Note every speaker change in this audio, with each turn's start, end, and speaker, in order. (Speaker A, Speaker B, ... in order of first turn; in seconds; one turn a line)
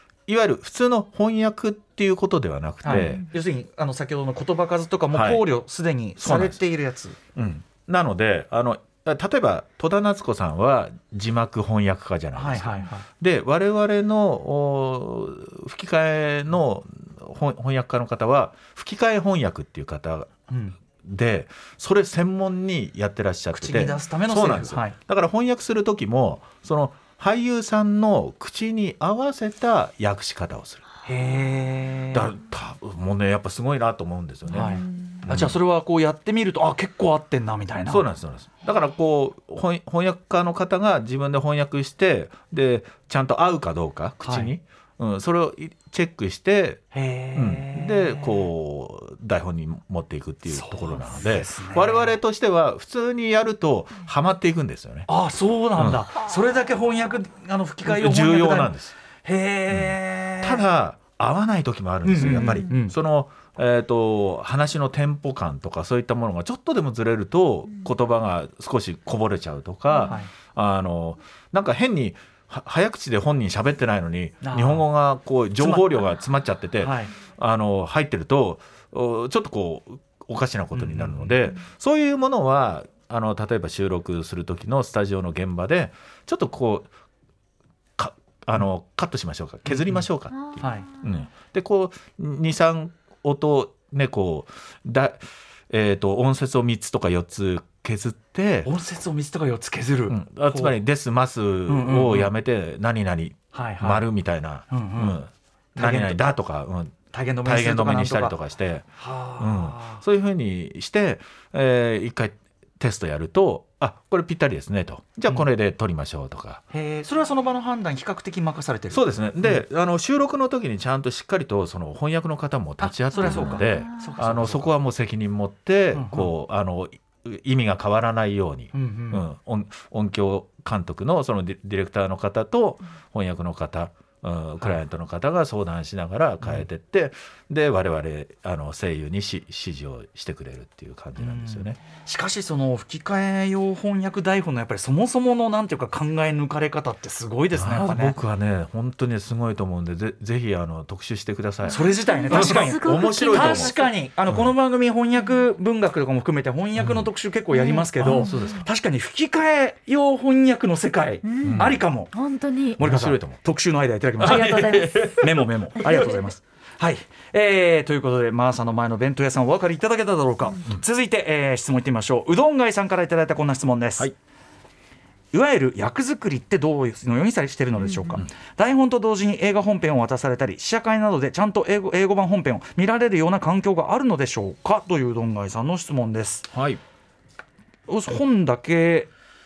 Speaker A: 0.3-3.2
Speaker B: 2.8-7.2
Speaker C: 2.9-3.2
Speaker A: 5.1-5.4
Speaker A: 6.2-6.6
Speaker A: 7.3-20.3
Speaker B: 12.3-13.1
Speaker B: 20.5-20.8
Speaker A: 20.9-30.8
Speaker B: 23.5-24.9
Speaker B: 31.1-32.3
Speaker A: 32.1-35.6
Speaker B: 34.5-38.0
Speaker C: 34.6-35.2
Speaker A: 37.9-46.8
Speaker B: 44.2-44.5
Speaker B: 46.9-48.5
Speaker A: 47.3-55.1
Speaker B: 50.5-52.2
Speaker B: 55.1-60.6
Speaker A: 55.8-56.0
Speaker A: 57.8-58.9
Speaker A: 59.7-86.9
Speaker B: 62.0-62.9
Speaker C: 62.2-62.6
Speaker B: 70.0-70.3
Speaker B: 74.4-74.8
Speaker B: 75.6-76.0
Speaker B: 76.8-77.1
Speaker B: 80.7-81.3
Speaker A: 88.0-98.7
Speaker B: 89.7-90.0
Speaker C: 90.3-90.8
Speaker B: 90.6-90.8
Speaker B: 98.6-100.8
Speaker A: 100.1-108.8
Speaker B: 101.7-102.3
Speaker B: 103.5-104.0
Speaker B: 104.7-105.2
Speaker B: 105.8-106.3
Speaker B: 107.1-108.3
Speaker B: 109.0-110.0
Speaker A: 109.4-116.6
Speaker B: 116.7-119.6
Speaker A: 118.9-141.8
Speaker B: 122.8-124.7
Speaker C: 123.2-124.1
Speaker B: 125.9-126.3
Speaker B: 128.7-129.2
Speaker B: 141.2-148.1
Speaker A: 147.5-153.7
Speaker C: 151.7-153.9
Speaker B: 151.7-162.1
Speaker A: 156.8-157.1
Speaker C: 157.5-158.6
Speaker A: 158.0-158.7
Speaker C: 161.2-162.8
Speaker A: 161.4-161.8
Speaker B: 162.8-174.1
Speaker A: 162.8-163.4
Speaker A: 164.2-165.3
Speaker C: 164.2-165.2
Speaker C: 165.8-166.2
Speaker B: 175.3-186.5
Speaker A: 186.5-186.8
Speaker B: 187.9-189.1